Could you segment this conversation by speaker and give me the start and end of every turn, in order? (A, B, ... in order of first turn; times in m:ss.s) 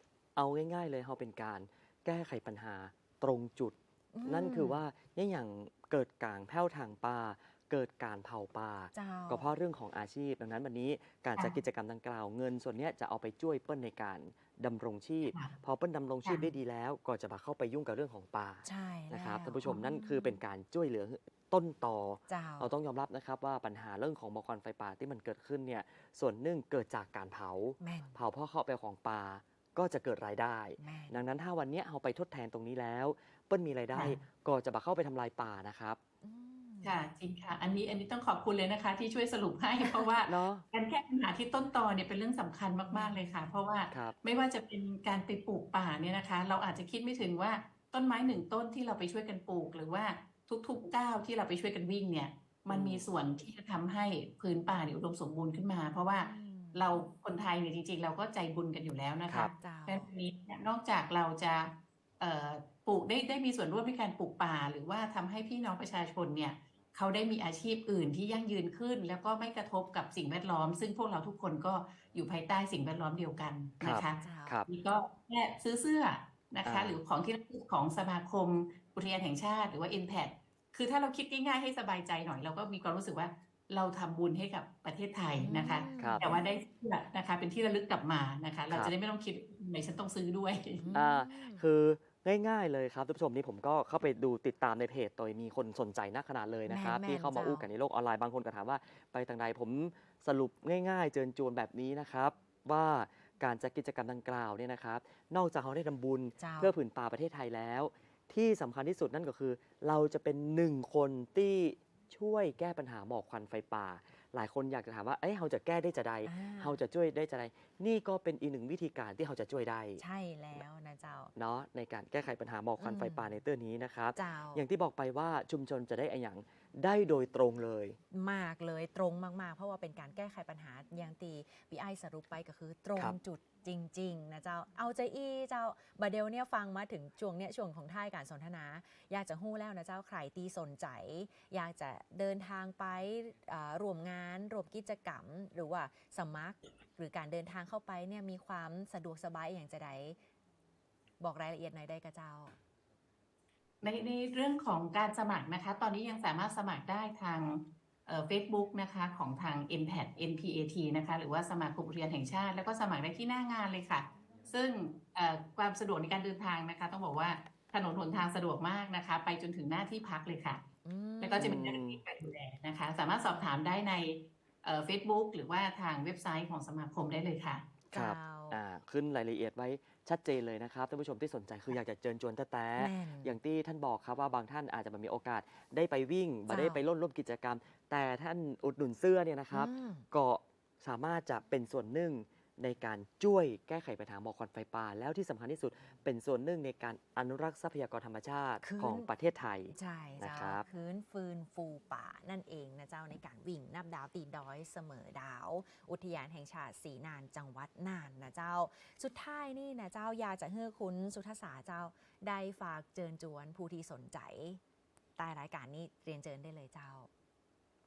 0:00.4-0:36.0 A
0:04.1-0:04.8 B
0:08.9-0:09.5 B
0:18.6-0:20.4 B
0:22.3-0:22.7 B
0:27.8-0:28.2 B
0:30.8-0:31.2 B
0:36.2-0:37.0 B
0:36.8-1:30.9 C
0:39.8-0:40.2 B
0:40.2-0:40.6 A
0:42.9-0:43.2 B
0:43.9-0:44.2 A
0:52.7-0:53.1 A
0:56.2-0:57.0 B
0:59.6-1:00.1 B
1:13.8-1:14.7 A
1:14.0-1:14.6 B
1:16.6-1:17.0 A
1:25.4-1:26.4 B
1:26.0-1:26.3 A
1:30.8-1:31.6 B
1:30.9-2:00.0 A
1:36.7-1:37.7 B
1:46.4-1:46.7 B
1:56.2-1:56.8 B
2:00.0-2:01.3 B
2:01.3-2:08.0 A
2:02.8-2:03.3 B
2:04.2-2:04.6 B
2:08.1-2:30.2 B
2:31.2-2:32.6 B
2:33.8-2:50.6 C
2:50.8-2:51.6 B
2:51.2-2:57.6 C
2:51.4-2:52.0 A
2:57.9-2:58.6 B
2:57.9-3:20.6 A
3:02.8-3:03.3 B
3:06.5-3:06.8 B
3:09.5-3:10.0 B
3:18.6-3:19.1 B
3:19.7-3:34.6 B
3:35.2-3:37.1 B